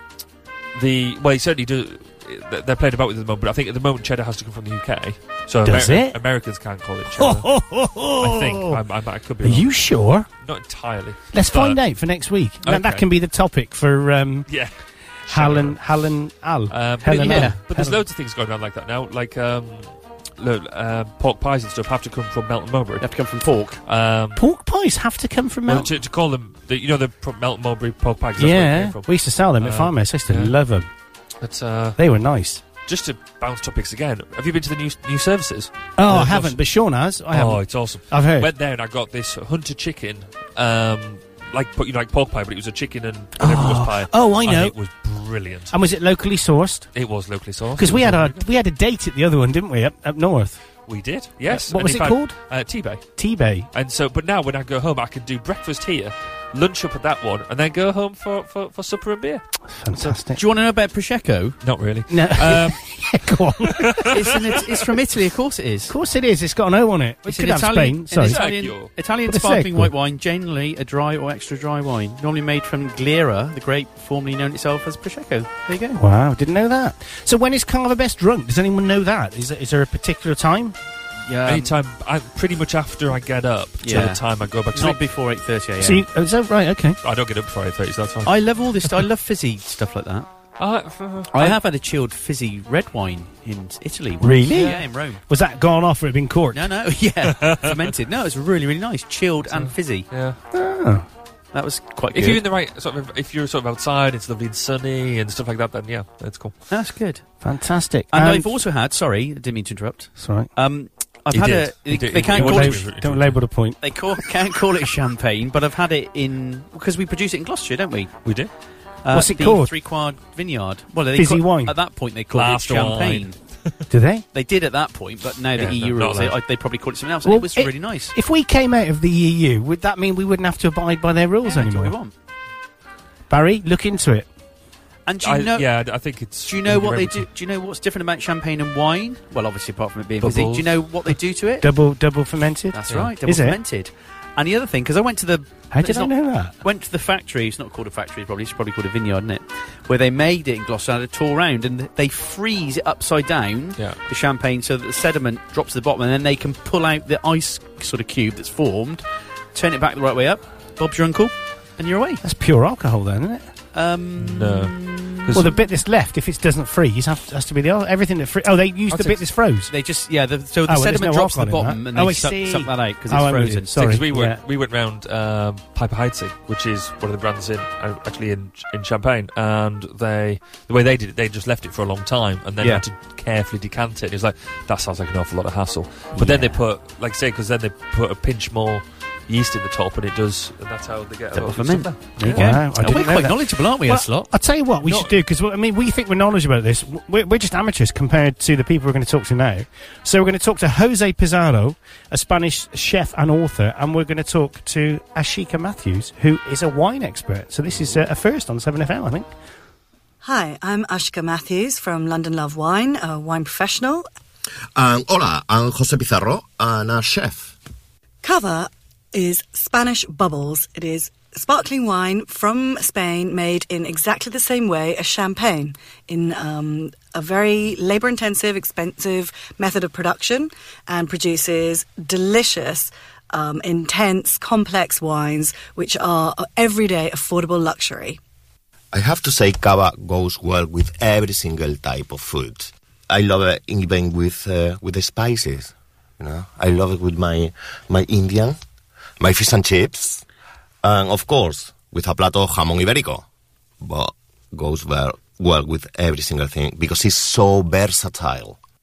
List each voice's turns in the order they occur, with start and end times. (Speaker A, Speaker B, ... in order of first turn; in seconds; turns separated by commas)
Speaker A: 0.7-7.5, Speaker B: 5.6-6.2, Speaker B: 7.1-8.8, Speaker A: 8.2-9.7, Speaker B: 9.4-10.3, Speaker A: 10.4-11.8, Speaker B: 11.3-14.5, Speaker A: 12.6-13.1, Speaker A: 14.5-14.7, Speaker A: 15.3-15.8, Speaker B: 15.3-18.0, Speaker A: 16.7-23.1, Speaker C: 17.1-17.6, Speaker C: 23.0-23.8, Speaker A: 23.8-24.4, Speaker B: 24.3-25.9, Speaker A: 25.7-29.1, Speaker B: 28.4-30.9, Speaker A: 29.6-30.5, Speaker A: 31.4-32.0, Speaker B: 32.0-32.6, Speaker A: 32.8-36.6, Speaker B: 36.0-38.5, Speaker A: 37.3-45.7, Speaker B: 43.4-44.7, Speaker B: 45.7-46.9, Speaker A: 46.9-48.5, Speaker B: 47.8-50.6, Speaker A: 50.9-53.1, Speaker B: 51.5-52.4, Speaker B: 53.1-53.7, Speaker A: 53.7-59.5, Speaker B: 59.7-60.4, Speaker C: 60.0-61.6, Speaker A: 61.6-62.8, Speaker B: 62.1-64.1, Speaker A: 63.8-64.1, Speaker C: 64.1-65.9, Speaker B: 65.9-68.4, Speaker C: 67.2-76.0, Speaker A: 68.2-68.9, Speaker B: 69.3-69.9, Speaker B: 75.9-80.8, Speaker C: 81.3-81.7, Speaker A: 81.4-85.0, Speaker C: 83.8-84.2, Speaker C: 84.7-86.0, Speaker B: 85.8-87.0, Speaker A: 87.0-88.3, Speaker C: 88.2-90.3, Speaker A: 90.6-91.6, Speaker C: 91.3-95.2, Speaker B: 94.2-96.7, Speaker C: 96.5-100.1, Speaker A: 99.5-100.4, Speaker B: 100.5-101.0, Speaker C: 101.5-102.4, Speaker A: 102.1-106.5, Speaker C: 106.7-107.2, Speaker B: 107.4-108.5, Speaker C: 108.1-112.8, Speaker B: 110.2-110.5, Speaker A: 111.3-113.4, Speaker B: 112.3-113.8, Speaker C: 113.8-118.1, Speaker A: 118.2-118.5, Speaker C: 119.0-123.3, Speaker B: 119.1-119.7, Speaker B: 121.2-121.7, Speaker A: 122.3-123.7, Speaker B: 123.9-124.2, Speaker C: 124.3-128.1, Speaker A: 125.5-126.4, Speaker B: 127.2-131.9, Speaker C: 131.4-132.1, Speaker B: 133.3-134.3, Speaker C: 135.1-135.7, Speaker A: 135.2-137.3, Speaker C: 136.5-141.7, Speaker A: 140.2-140.8, Speaker B: 141.6-143.6, Speaker C: 142.7-162.2, Speaker B: 145.7-146.5, Speaker B: 162.2-163.5, Speaker C: 163.7-165.4, Speaker A: 164.2-165.5, Speaker B: 165.3-169.7, Speaker A: 168.9-169.2, Speaker C: 169.7-173.8, Speaker B: 170.7-174.4, Speaker A: 173.7-192.5, Speaker C: 186.2-186.5, Speaker C: 191.3-194.3, Speaker B: 192.2-209.3, Speaker A: 194.8-195.2, Speaker D: 210.2-214.1, Speaker E: 214.8-217.5, Speaker D: 218.2-238.2, Speaker E: 238.9-248.6, Speaker E: 249.2-250.2, Speaker E: 250.8-253.2, Speaker E: 253.8-258.6